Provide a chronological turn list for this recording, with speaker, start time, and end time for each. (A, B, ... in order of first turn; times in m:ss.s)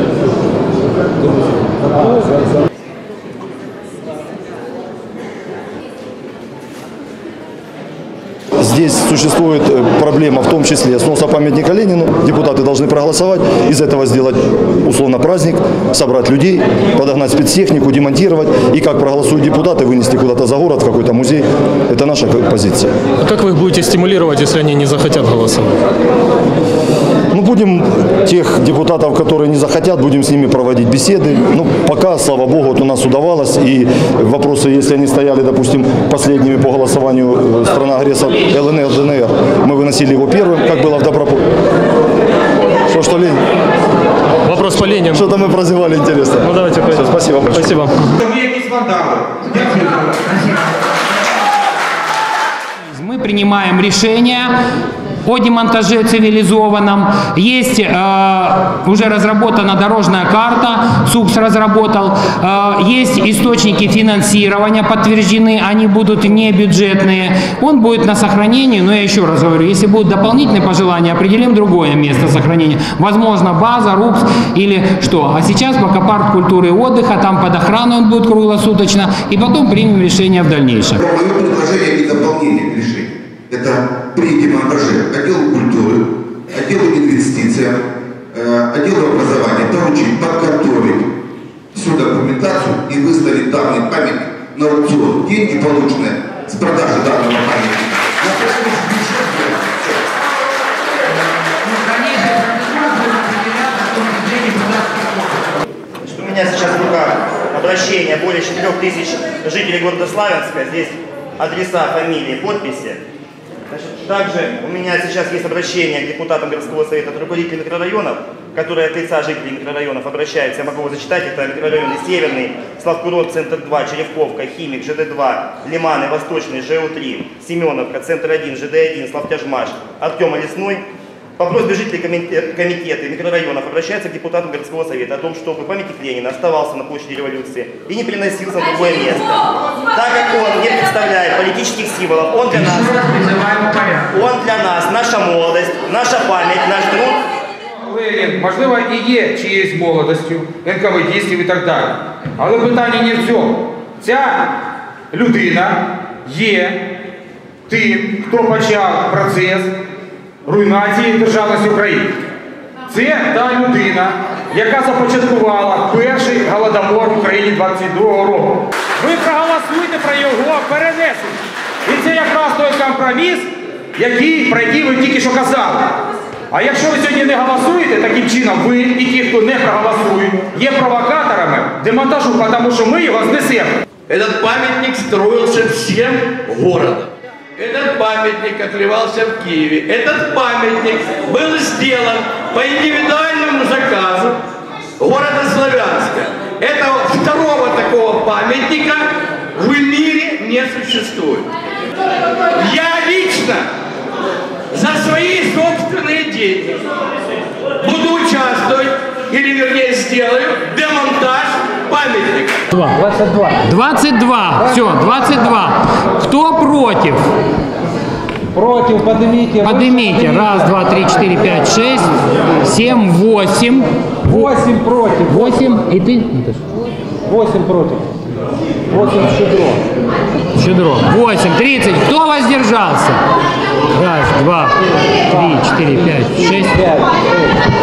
0:08.6-0:22.9 A
0:23.2-0:25.8 B
0:27.3-0:41.5 A
0:42.8-0:43.4 A
0:44.5-0:45.2 B
0:45.0-0:47.8 A
0:46.4-0:47.0 B
0:47.6-0:47.8 B
0:48.2-0:50.4 C
0:52.8-0:54.5 D
0:55.2-1:21.0 D
1:21.0-1:27.8 E
1:28.3-1:31.1 E
1:31.7-1:39.0 E
1:41.6-1:45.4 D
1:46.0-1:53.0 F
1:53.7-2:10.8 F
2:11.4-2:23.0 F
2:22.5-2:24.1 D
2:24.1-2:27.2 F
2:27.8-2:34.6 C
2:35.1-2:36.9 C
2:37.7-2:39.7 C
2:40.4-2:42.1 C
2:42.9-2:56.0 C
2:56.5-3:03.7 C
3:04.1-3:14.4 G
3:15.0-3:21.5 G
3:22.5-3:23.7 G
3:24.7-3:26.8 G
3:27.8-3:32.6 G
3:32.7-3:33.0 D
3:33.0-3:33.5 H
3:33.5-3:37.3 D
3:38.5-3:40.6 H
3:39.6-3:46.6 D
3:44.3-3:45.5 H
3:47.3-3:48.1 H
3:48.9-3:49.8 H
3:50.5-3:53.2 D
3:53.9-3:57.0 D
3:56.8-3:57.4 H